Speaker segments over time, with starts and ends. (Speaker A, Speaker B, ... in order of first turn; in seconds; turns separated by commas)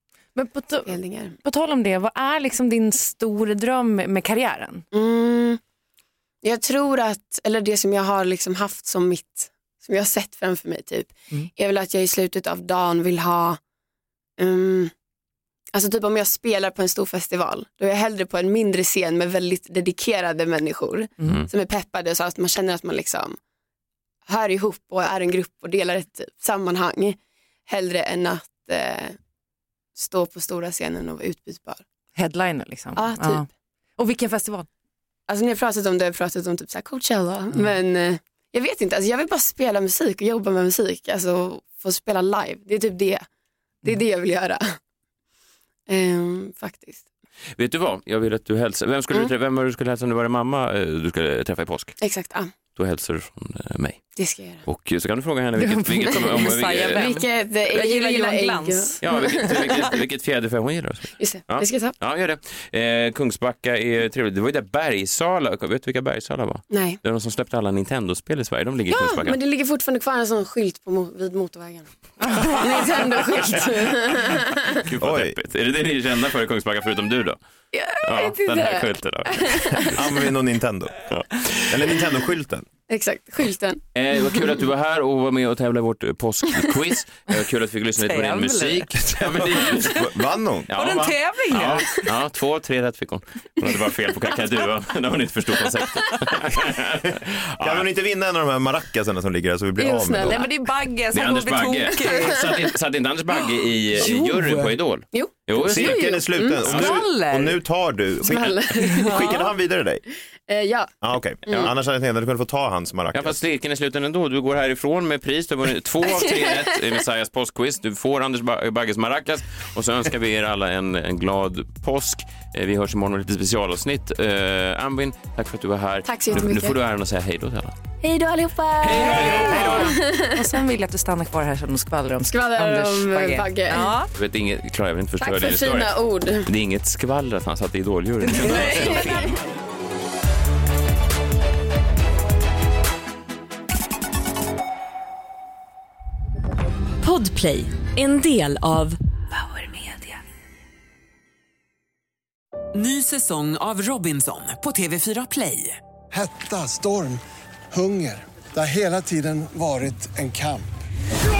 Speaker A: 0.3-4.8, Speaker B: 0.9-1.4, Speaker B: 4.9-5.6, Speaker B: 6.4-13.6, Speaker B: 14.4-14.9, Speaker B: 15.7-23.4, Speaker B: 24.2-29.2, Speaker B: 29.9-31.8, Speaker A: 32.1-33.5, Speaker B: 33.0-33.5, Speaker A: 34.0-34.7, Speaker B: 35.3-43.2, Speaker B: 43.8-44.8, Speaker B: 45.9-47.0, Speaker C: 47.5-52.0, Speaker B: 52.0-52.5, Speaker C: 52.7-57.0, Speaker B: 54.1-54.6, Speaker A: 55.5-59.5, Speaker B: 56.9-59.8, Speaker C: 59.0-69.4, Speaker B: 61.2-61.9, Speaker B: 66.7-67.0, Speaker B: 68.9-71.9, Speaker A: 72.2-73.2, Speaker B: 72.5-74.8, Speaker C: 73.2-77.4, Speaker D: 75.0-75.3, Speaker B: 77.7-80.0, Speaker C: 78.0-80.0, Speaker D: 79.9-81.0, Speaker C: 81.1-81.8, Speaker D: 81.7-82.7, Speaker B: 82.9-83.8, Speaker C: 83.9-90.0, Speaker A: 88.0-89.9, Speaker D: 89.6-90.7, Speaker C: 90.7-97.9, Speaker A: 90.7-92.1, Speaker D: 97.6-100.4, Speaker B: 99.8-100.5, Speaker A: 100.3-102.7, Speaker C: 101.1-106.0, Speaker A: 104.0-104.8, Speaker B: 105.1-106.6, Speaker D: 105.6-110.0, Speaker A: 106.6-107.6, Speaker C: 106.6-107.0, Speaker B: 108.2-109.5, Speaker A: 109.0-109.3, Speaker B: 110.4-111.7, Speaker D: 111.0-113.4, Speaker C: 113.1-127.8, Speaker B: 126.0-126.8, Speaker B: 128.0-130.4, Speaker C: 128.8-129.9, Speaker A: 128.9-134.1, Speaker B: 132.2-133.9, Speaker C: 134.1-139.4, Speaker B: 135.2-136.5, Speaker B: 138.4-139.3, Speaker E: 147.0-150.1, Speaker F: 152.7-155.8, Speaker G: 156.1-157.2, Speaker G: 157.7-160.7